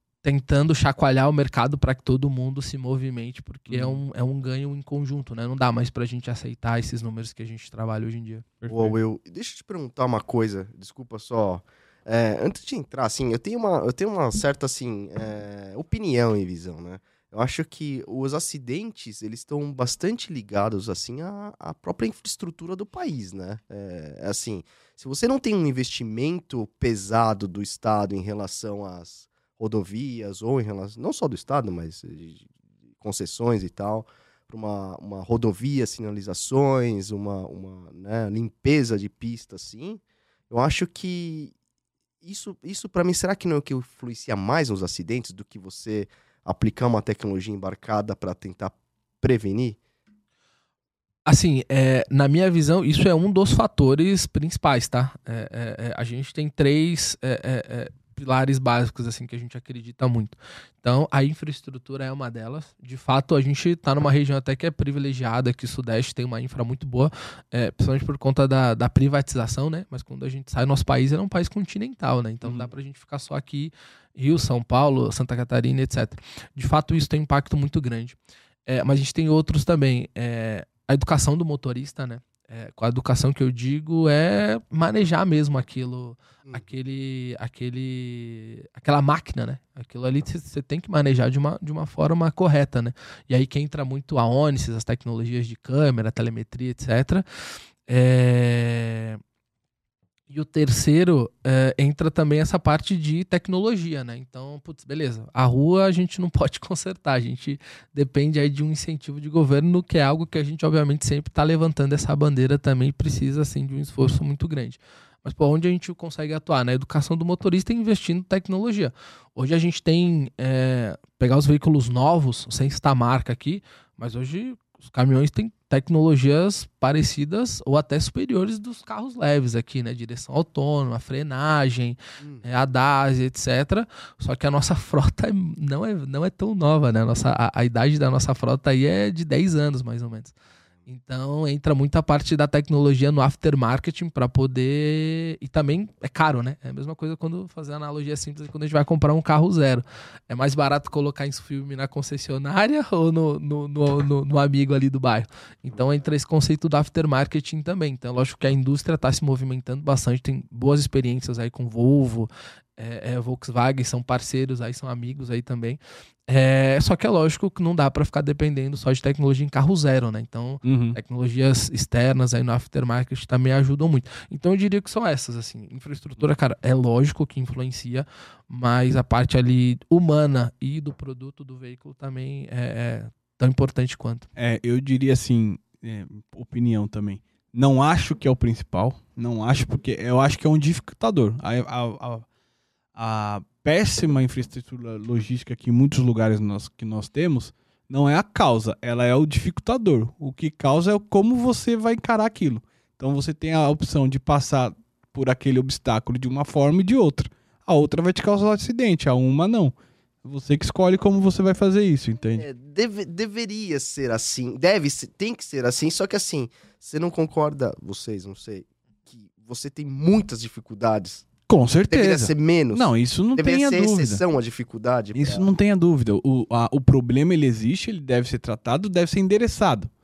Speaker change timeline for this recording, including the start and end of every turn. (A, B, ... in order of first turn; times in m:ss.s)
0:00.2-0:08.5 A
0:03.7-0:04.0 B
0:08.6-0:09.0 B
0:08.7-0:32.5 C
0:33.0-0:41.5 C
0:42.2-0:49.8 C
0:51.3-1:37.2 A
1:12.4-1:12.7 B
1:37.9-1:39.2 A
1:40.3-2:20.4 A
2:12.2-2:12.4 C
2:20.9-3:04.3 A
2:50.6-2:51.0 B
3:04.4-3:12.2 B
3:13.0-3:32.4 B
3:32.4-3:41.3 C
3:41.5-3:44.2 B
3:41.9-3:45.5 C
3:45.2-3:49.9 B